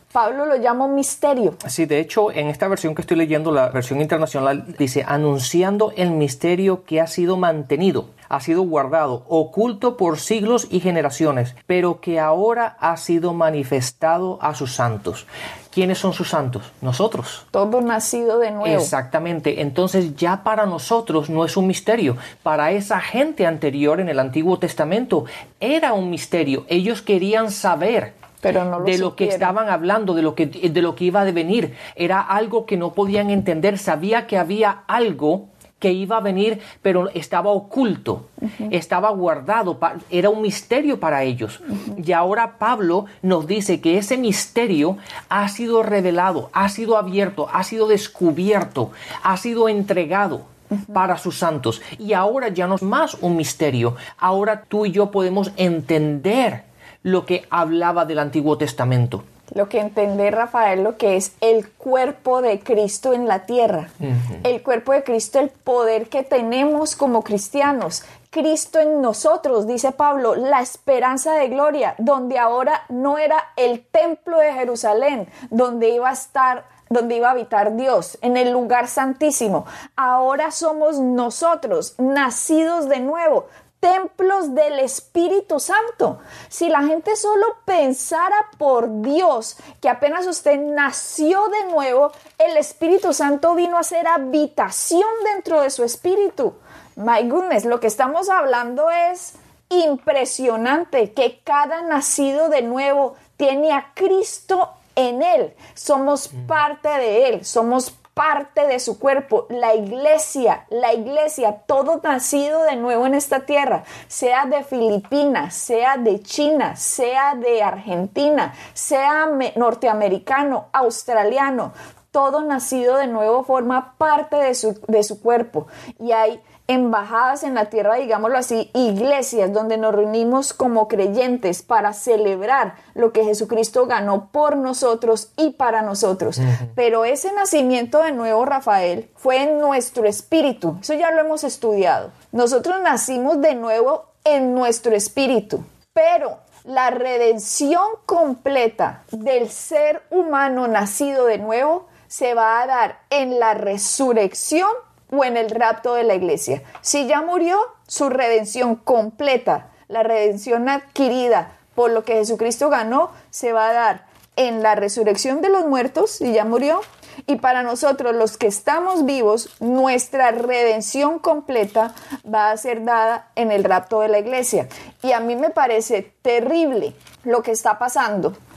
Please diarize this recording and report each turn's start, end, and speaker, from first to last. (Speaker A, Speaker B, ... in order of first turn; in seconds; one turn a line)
Speaker A: 0.1-1.6
Speaker B: 1.6-17.4
Speaker A: 17.5-18.9
Speaker B: 18.6-28.1
Speaker A: 28.4-29.5
Speaker B: 28.8-59.2
Speaker A: 59.5-178.3
Speaker B: 136.4-136.7